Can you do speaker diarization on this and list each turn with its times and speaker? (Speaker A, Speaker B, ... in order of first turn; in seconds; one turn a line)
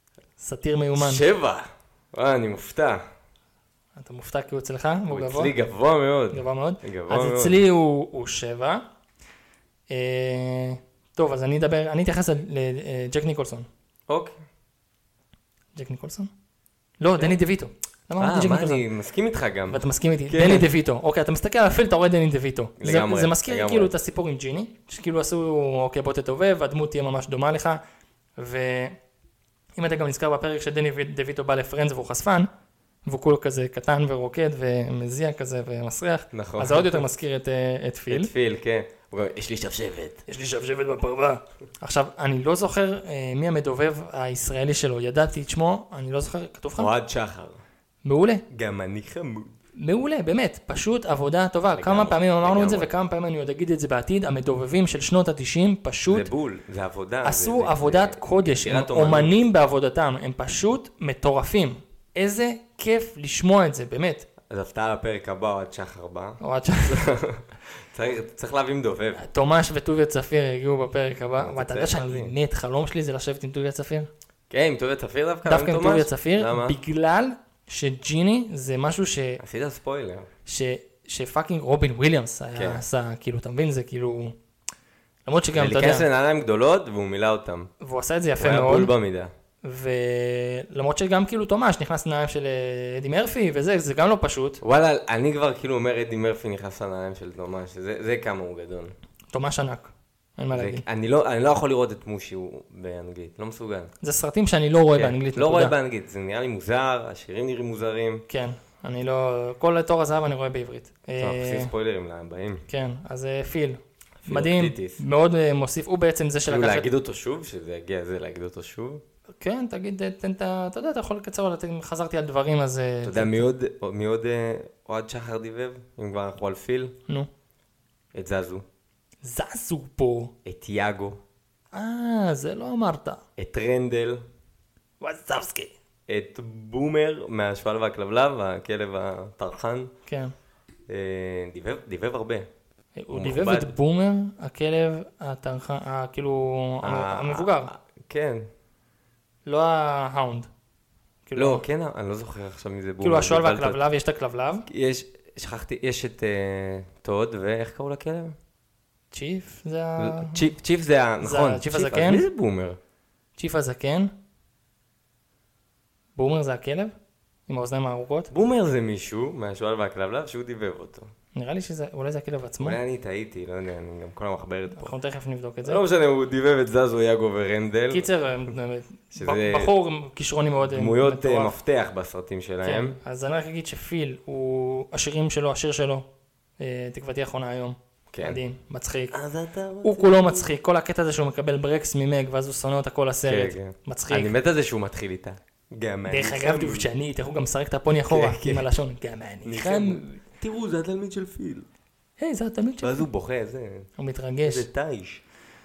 Speaker A: 0.4-1.3
Speaker B: 0.9-3.0
Speaker A: 4.0-5.5
Speaker B: 5.1-7.6
Speaker A: 6.3-8.8
Speaker A: 9.9-13.7
Speaker B: 14.1-14.4
Speaker A: 15.8-16.3
Speaker A: 17.0-18.8
Speaker B: 18.2-20.7
Speaker A: 19.7-27.8
Speaker B: 22.8-23.9
Speaker A: 28.4-29.0
Speaker A: 29.8-32.5
Speaker A: 33.1-38.3
Speaker B: 36.3-37.0
Speaker B: 38.1-40.2
Speaker A: 40.3-46.9
Speaker B: 46.8-47.6
Speaker A: 48.0-48.5
Speaker B: 48.5-49.5
Speaker A: 49.8-56.3
Speaker B: 51.8-52.9
Speaker B: 56.1-59.4
Speaker A: 57.2-64.3
Speaker B: 64.5-69.3
Speaker A: 66.4-67.1
Speaker A: 69.2-74.1
Speaker B: 71.4-72.3
Speaker B: 74.5-76.8
Speaker A: 75.5-79.4
Speaker B: 79.4-80.3
Speaker A: 80.5-84.4
Speaker B: 82.6-82.8
Speaker A: 85.3-86.1
Speaker B: 85.5-87.7
Speaker A: 87.8-88.9
Speaker B: 88.4-89.3
Speaker A: 89.6-94.6
Speaker B: 94.6-98.9
Speaker A: 99.3-100.8
Speaker B: 100.5-103.9
Speaker A: 104.0-105.7
Speaker B: 104.9-108.2
Speaker A: 108.3-111.7
Speaker B: 111.2-112.7
Speaker A: 112.7-116.9
Speaker B: 114.2-115.0
Speaker B: 116.5-119.0
Speaker A: 119.4-123.5
Speaker B: 123.0-127.0
Speaker B: 128.1-128.6
Speaker A: 129.2-130.3
Speaker B: 130.4-131.2
Speaker A: 131.7-133.2
Speaker B: 133.4-134.2
Speaker A: 135.0-135.7
Speaker B: 136.1-139.9
Speaker A: 140.1-140.3
Speaker B: 140.9-142.5
Speaker A: 143.0-147.7
Speaker B: 143.1-143.7
Speaker B: 146.8-148.5
Speaker A: 149.5-150.5
Speaker A: 151.3-151.6
Speaker B: 151.4-153.8
Speaker A: 153.0-154.7
Speaker B: 154.7-158.4
Speaker A: 159.1-160.5
Speaker B: 160.0-162.8
Speaker A: 161.2-162.2
Speaker A: 163.4-164.1
Speaker A: 166.2-166.9
Speaker A: 167.5-168.3
Speaker B: 168.3-171.1
Speaker A: 171.3-172.8
Speaker B: 172.6-174.9
Speaker A: 174.7-175.8
Speaker B: 175.6-178.1
Speaker A: 177.9-181.6
Speaker B: 179.1-179.7
Speaker B: 180.6-183.0
Speaker A: 182.6-186.1
Speaker A: 186.6-189.2
Speaker B: 188.1-188.4
Speaker B: 189.1-190.5
Speaker A: 189.8-194.3
Speaker B: 193.3-196.9
Speaker A: 196.1-200.1
Speaker B: 198.1-198.7
Speaker B: 199.4-201.7
Speaker A: 202.2-203.1
Speaker B: 202.8-203.9
Speaker A: 204.0-204.7
Speaker B: 204.5-205.2